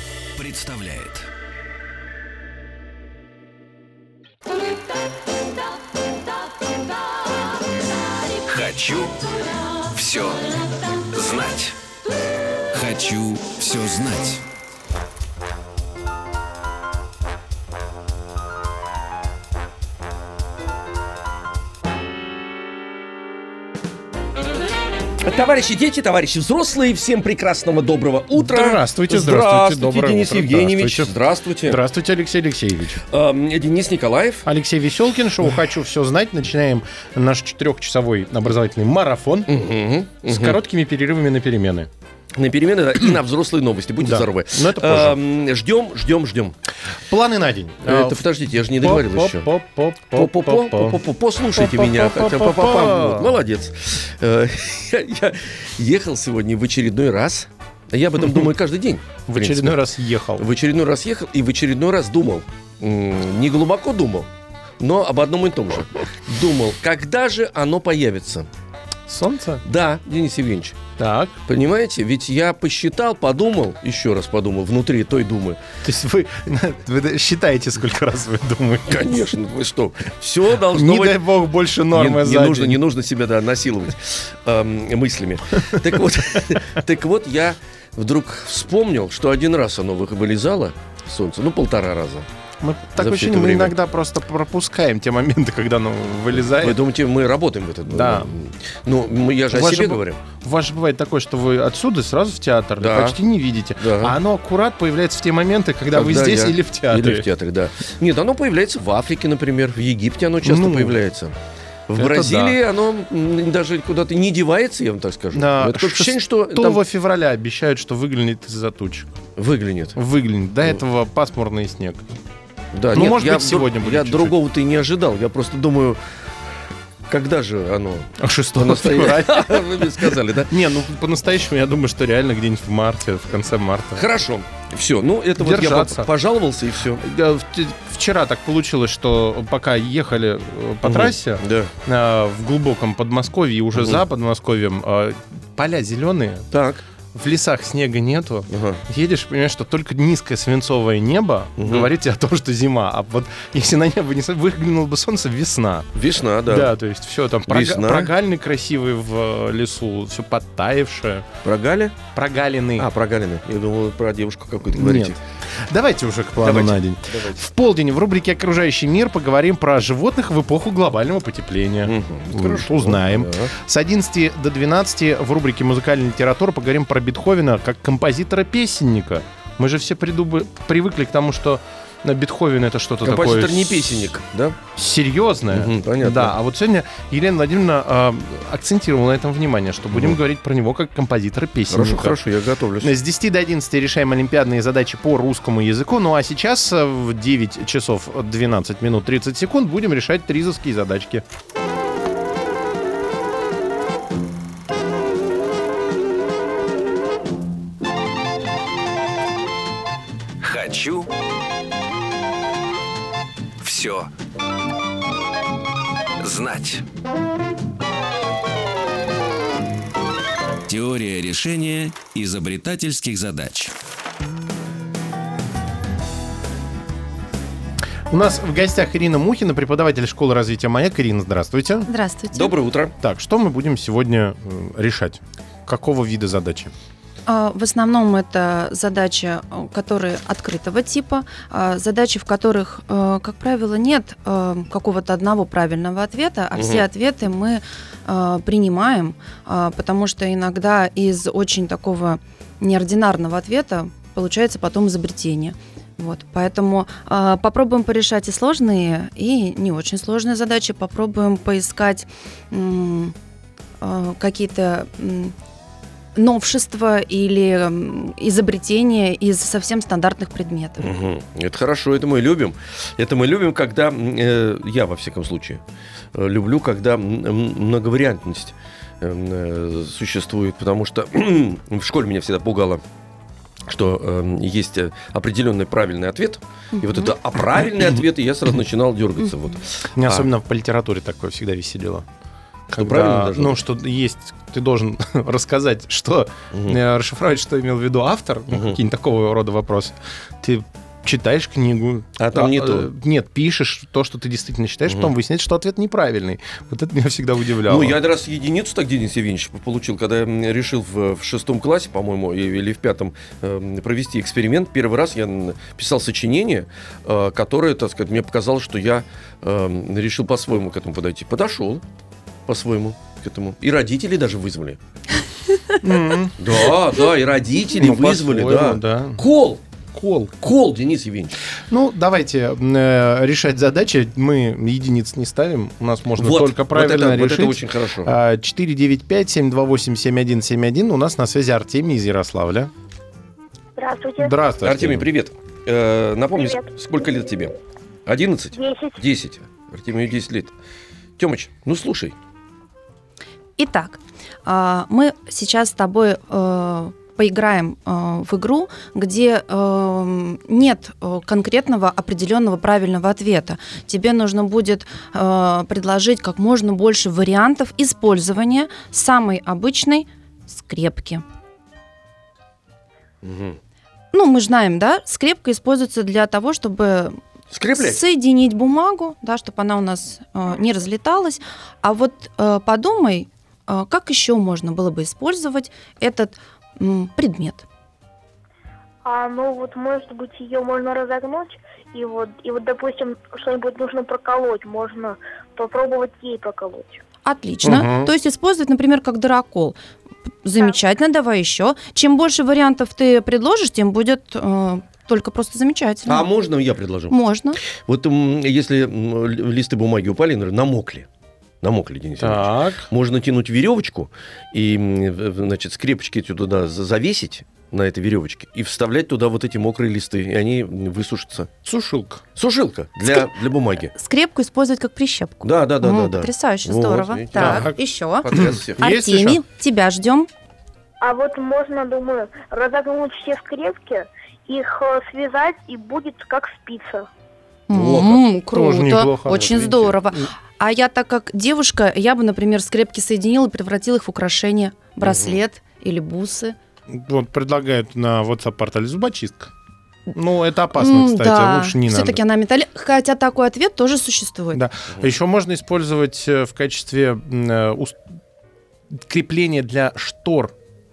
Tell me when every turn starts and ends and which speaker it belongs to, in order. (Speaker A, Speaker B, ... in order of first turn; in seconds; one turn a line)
Speaker A: 0.3-1.3
Speaker A: 8.2-11.8
Speaker A: 12.7-14.4
Speaker B: 25.2-31.8
Speaker C: 28.3-31.1
Speaker C: 31.7-33.0
Speaker B: 33.1-34.5
Speaker C: 34.5-39.6
Speaker B: 39.5-40.6
Speaker C: 40.2-41.9
Speaker B: 42.4-46.5
Speaker C: 44.0-45.2
Speaker C: 47.1-53.4
Speaker B: 47.8-49.5
Speaker B: 50.1-59.8
Speaker C: 58.2-58.5
Speaker C: 59.3-60.5
Speaker B: 60.4-64.3
Speaker B: 64.8-68.5
Speaker C: 69.1-69.6
Speaker B: 69.6-70.8
Speaker C: 71.0-71.4
Speaker B: 71.5-75.6
Speaker C: 75.8-79.3
Speaker B: 78.9-81.2
Speaker C: 80.6-82.8
Speaker B: 81.9-92.3
Speaker C: 85.8-86.6
Speaker C: 92.6-96.8
Speaker B: 93.0-93.7
Speaker B: 96.3-100.2
Speaker C: 97.9-98.3
Speaker C: 99.5-107.3
Speaker B: 102.8-103.2
Speaker B: 103.8-104.1
Speaker B: 105.9-111.4
Speaker C: 110.4-111.0
Speaker B: 111.9-116.8
Speaker C: 112.0-112.6
Speaker C: 115.3-119.1
Speaker B: 119.4-120.0
Speaker C: 120.0-122.0
Speaker B: 122.7-126.0
Speaker C: 122.9-124.4
Speaker B: 127.1-130.5
Speaker C: 128.2-134.1
Speaker B: 133.9-137.0
Speaker C: 135.4-136.1
Speaker C: 136.9-146.5
Speaker B: 140.8-141.7
Speaker B: 143.7-144.0
Speaker B: 146.5-146.8
Speaker C: 147.1-155.9
Speaker B: 148.5-148.8
Speaker B: 151.6-151.9
Speaker B: 155.9-156.7
Speaker C: 156.5-161.3
Speaker B: 157.5-158.1
Speaker B: 161.4-162.0
Speaker C: 162.1-162.9
Speaker B: 162.8-165.2
Speaker C: 164.7-184.1
Speaker B: 166.4-167.4
Speaker B: 171.8-173.5
Speaker B: 183.0-184.6
Speaker C: 184.7-192.2
Speaker B: 185.5-186.3
Speaker B: 189.9-190.2
Speaker B: 191.7-192.9
Speaker C: 192.8-201.2
Speaker A: 210.4-211.1
Speaker A: 213.6-214.1
Speaker A: 216.2-216.8
Speaker A: 220.7-223.7
Speaker C: 228.1-231.9
Speaker D: 231.9-232.5
Speaker B: 232.3-232.9
Speaker C: 233.0-236.7
Speaker D: 237.3-263.1
Speaker B: 246.5-246.8
Speaker D: 263.8-265.3
Speaker D: 266.1-270.9
Speaker B: 270.8-275.6
Speaker B: 276.1-282.8
Speaker B: 283.7-290.3
Speaker D: 286.8-287.1
Speaker C: 290.0-292.1
Speaker C: 292.7-308.0
Speaker B: 292.7-293.6
Speaker B: 296.5-296.8
Speaker B: 298.5-298.8
Speaker B: 302.2-302.9
Speaker B: 304.9-305.1
Speaker B: 307.7-321.8
Speaker B: 322.5-324.8
Speaker C: 325.8-326.6
Speaker B: 326.4-329.6
Speaker C: 327.8-329.2
Speaker C: 329.9-330.4
Speaker B: 330.4-331.4
Speaker C: 331.6-342.7
Speaker B: 336.2-338.1
Speaker E: 343.8-344.4
Speaker C: 344.2-345.1
Speaker B: 344.6-347.5
Speaker E: 346.3-346.7
Speaker B: 348.1-350.5
Speaker E: 348.5-349.0
Speaker B: 351.2-352.1
Speaker D: 353.6-371.2
Speaker B: 373.2-373.6
Speaker D: 374.1-377.2
Speaker B: 377.5-378.0
Speaker D: 377.8-387.6
Speaker E: 389.0-397.0
Speaker D: 397.2-399.8
Speaker C: 397.6-398.1
Speaker D: 400.4-406.3
Speaker B: 406.1-411.1
Speaker D: 407.1-407.6
Speaker B: 411.6-421.5
Speaker C: 412.2-412.9
Speaker C: 421.6-422.2
Speaker B: 422.4-423.9
Speaker D: 423.9-430.3
Speaker B: 425.4-427.7
Speaker C: 427.3-429.4
Speaker B: 428.2-428.8
Speaker E: 431.0-437.1
Speaker D: 437.7-446.6
Speaker B: 437.7-438.2
Speaker C: 438.5-439.6
Speaker B: 439.3-439.9
Speaker B: 445.0-445.4
Speaker C: 446.9-449.5
Speaker C: 450.1-452.2
Speaker D: 450.8-454.6
Speaker C: 454.5-458.0
Speaker C: 458.9-460.5